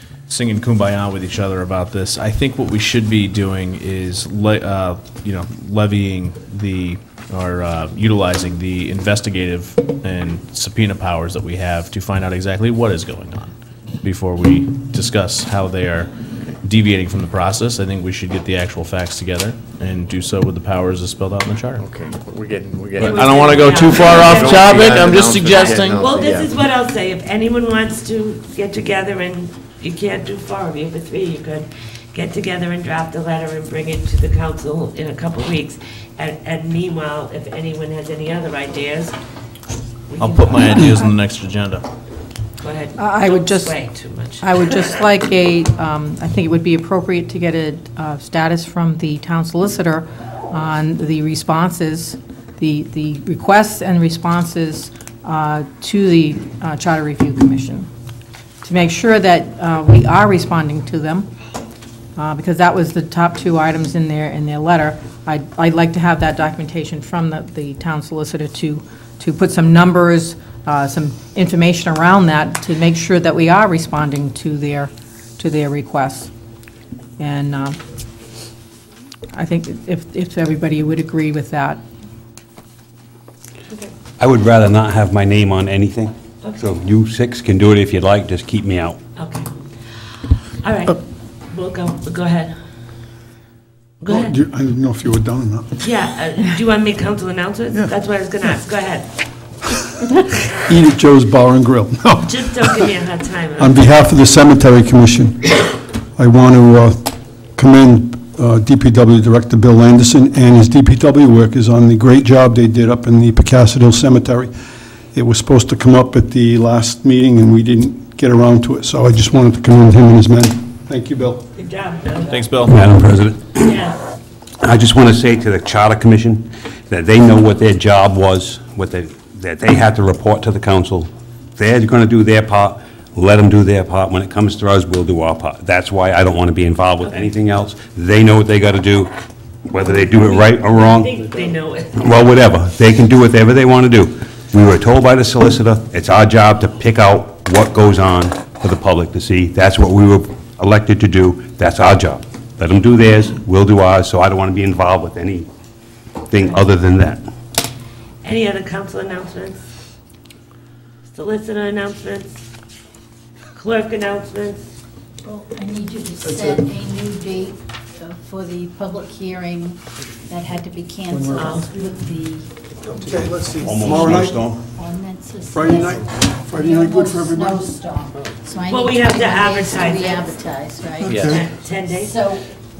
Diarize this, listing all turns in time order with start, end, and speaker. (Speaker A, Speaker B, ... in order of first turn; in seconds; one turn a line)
Speaker A: 0.3-16.1
Speaker A: 16.6-21.9
Speaker B: 21.8-26.6
Speaker A: 22.9-26.1
Speaker C: 23.0-25.0
Speaker C: 25.8-39.1
Speaker C: 40.1-40.9
Speaker A: 40.2-41.8
Speaker C: 42.6-44.8
Speaker D: 43.0-43.8
Speaker D: 44.4-57.9
Speaker D: 58.6-61.3
Speaker D: 62.1-76.3
Speaker D: 77.2-77.8
Speaker D: 79.3-81.8
Speaker E: 84.2-89.0
Speaker C: 86.4-86.7
Speaker C: 89.2-89.5
Speaker C: 90.6-92.5
Speaker C: 94.0-94.3
Speaker F: 94.0-95.9
Speaker C: 95.8-99.1
Speaker F: 100.6-102.9
Speaker C: 102.2-103.8
Speaker F: 103.6-105.5
Speaker F: 106.2-114.5
Speaker F: 115.1-121.5
Speaker C: 121.5-122.4
Speaker A: 122.3-122.8
Speaker E: 122.6-123.8
Speaker C: 123.5-124.0
Speaker E: 124.6-139.1
Speaker E: 139.7-141.1
Speaker C: 139.8-142.0
Speaker E: 142.0-155.5
Speaker E: 156.3-157.2
Speaker C: 158.2-159.6
Speaker C: 161.1-162.3
Speaker C: 163.5-164.6
Speaker G: 165.2-181.2
Speaker F: 166.2-166.7
Speaker F: 171.1-171.7
Speaker C: 171.3-171.7
Speaker F: 172.8-174.4
Speaker E: 173.6-174.7
Speaker F: 175.5-177.8
Speaker C: 178.7-180.3
Speaker F: 181.0-181.5
Speaker B: 181.1-181.4
Speaker C: 181.2-182.3
Speaker G: 182.0-182.4